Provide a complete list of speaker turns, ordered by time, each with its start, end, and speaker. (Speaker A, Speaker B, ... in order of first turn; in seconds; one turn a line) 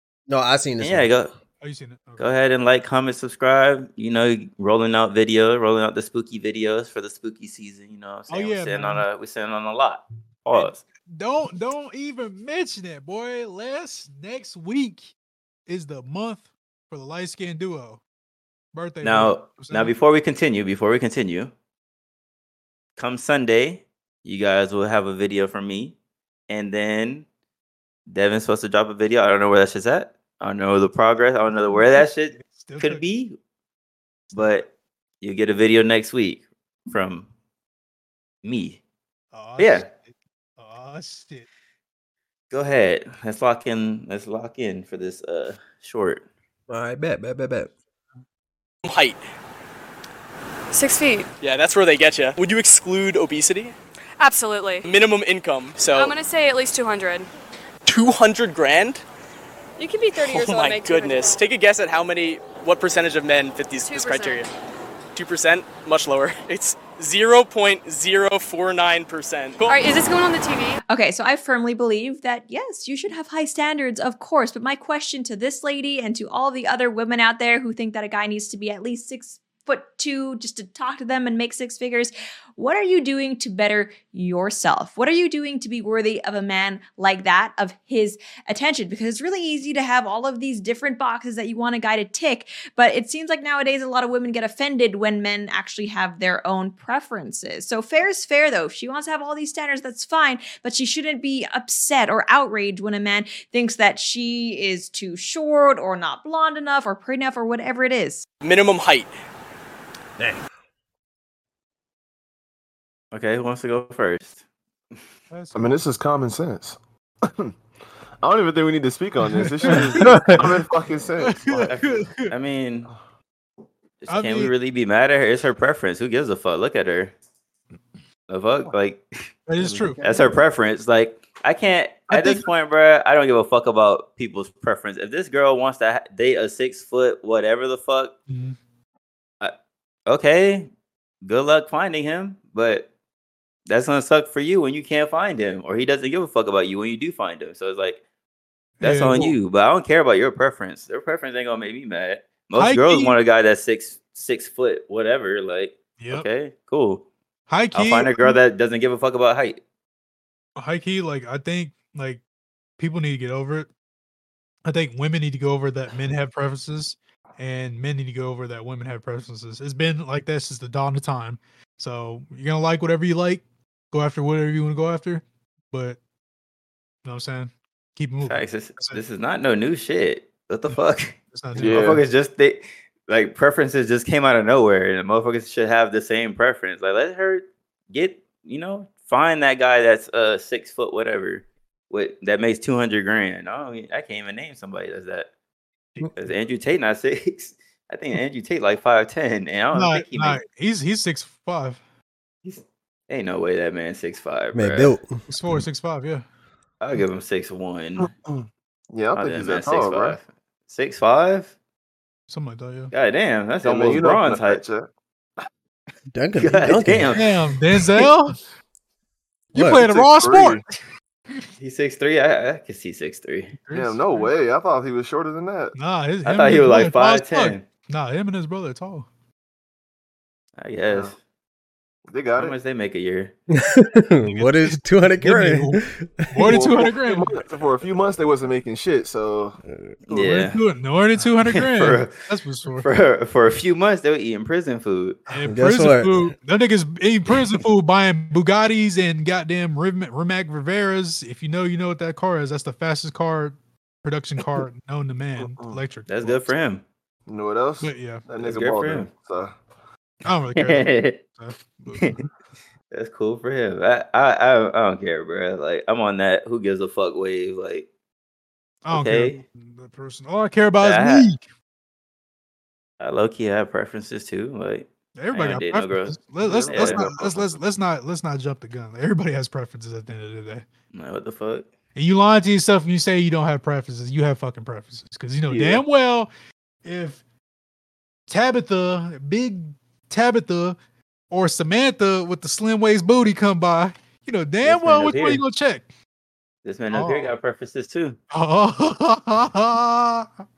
Speaker A: 0.3-1.1
Speaker B: 0.8-1.3
Speaker C: 1.6-2.3
Speaker B: 2.2-10.8
Speaker C: 8.3-9.1
Speaker C: 10.5-15.1
Speaker C: 15.7-18.0
Speaker C: 18.7-19.9
Speaker B: 19.0-21.5
Speaker B: 23.0-25.9
Speaker B: 26.5-27.2
Speaker B: 28.1-33.3
Speaker C: 31.7-33.0
Speaker B: 34.3-34.7
Speaker B: 35.2-37.3
Speaker B: 38.4-38.8
Speaker C: 39.3-39.9
Speaker B: 39.6-39.9
Speaker C: 40.6-41.5
Speaker B: 42.5-46.2
Speaker A: 46.7-47.7
Speaker D: 48.8-49.2
Speaker E: 50.7-51.2
Speaker D: 51.4-53.7
Speaker E: 54.2-54.9
Speaker D: 54.8-56.2
Speaker E: 55.9-57.3
Speaker D: 57.9-59.0
Speaker E: 59.8-61.4
Speaker D: 59.8-64.5
Speaker E: 63.8-64.4
Speaker D: 65.1-70.8
Speaker E: 69.7-70.7
Speaker F: 70.9-108.2
Speaker D: 108.4-109.1
Speaker B: 113.1-114.4
Speaker C: 115.3-115.7
Speaker G: 115.5-117.5
Speaker G: 118.2-121.7
Speaker C: 119.3-120.5
Speaker A: 120.0-120.4
Speaker C: 121.2-122.3
Speaker B: 121.7-122.9
Speaker B: 124.0-127.1
Speaker C: 124.1-124.5
Speaker B: 128.3-129.0
Speaker C: 129.5-130.0
Speaker G: 129.6-129.9
Speaker B: 130.0-138.1
Speaker C: 132.1-132.4
Speaker C: 138.3-138.6
Speaker B: 140.1-140.7
Speaker B: 141.2-142.9
Speaker B: 143.7-148.0
Speaker C: 148.8-149.3
Speaker B: 148.8-157.1
Speaker C: 152.5-153.1
Speaker C: 156.0-156.3
Speaker C: 157.5-158.4
Speaker B: 157.7-159.6
Speaker C: 160.6-162.2
Speaker C: 162.8-163.7
Speaker C: 164.7-176.0
Speaker C: 177.0-179.0
Speaker B: 178.2-195.3
Speaker C: 181.3-181.9
Speaker G: 181.6-182.0
Speaker B: 196.1-200.4
Speaker C: 199.7-201.8
Speaker B: 202.4-204.9
Speaker A: 204.5-205.2
Speaker C: 205.3-206.2
Speaker B: 206.8-208.1
Speaker G: 208.0-210.2
Speaker B: 209.1-211.5
Speaker C: 212.3-212.9
Speaker B: 212.9-214.6
Speaker G: 213.6-214.9
Speaker A: 216.1-217.2
Speaker B: 216.3-217.4
Speaker C: 217.1-218.4
Speaker C: 219.5-220.6
Speaker A: 219.5-219.8
Speaker G: 219.7-220.6
Speaker B: 221.6-223.5
Speaker C: 223.6-224.3
Speaker G: 223.7-225.7
Speaker C: 225.7-229.1
Speaker B: 226.2-227.6
Speaker B: 230.6-231.2
Speaker G: 232.1-232.5
Speaker B: 232.4-233.3
Speaker A: 233.5-236.6
Speaker C: 234.3-235.8
Speaker C: 236.3-237.4
Speaker G: 236.4-239.6
Speaker A: 239.6-239.9
Speaker B: 240.1-240.6
Speaker C: 240.1-242.9
Speaker B: 241.4-242.2
Speaker B: 242.8-245.2
Speaker C: 245.3-256.5
Speaker A: 245.5-246.1
Speaker G: 255.4-255.8
Speaker B: 256.1-256.8
Speaker G: 257.3-259.5
Speaker C: 257.8-258.2
Speaker B: 258.4-259.1
Speaker C: 260.2-262.3
Speaker B: 260.5-261.2
Speaker B: 262.9-267.9
Speaker C: 268.8-271.4
Speaker B: 268.9-269.4
Speaker B: 270.8-271.3
Speaker B: 273.0-277.0
Speaker C: 275.1-280.6
Speaker G: 276.4-277.5
Speaker B: 280.9-281.7
Speaker C: 281.9-286.3
Speaker G: 285.5-285.8
Speaker C: 286.8-287.2
Speaker C: 288.3-290.8
Speaker C: 291.3-295.9
Speaker B: 294.6-295.4
Speaker B: 296.6-298.2
Speaker C: 296.9-297.3
Speaker C: 298.3-300.3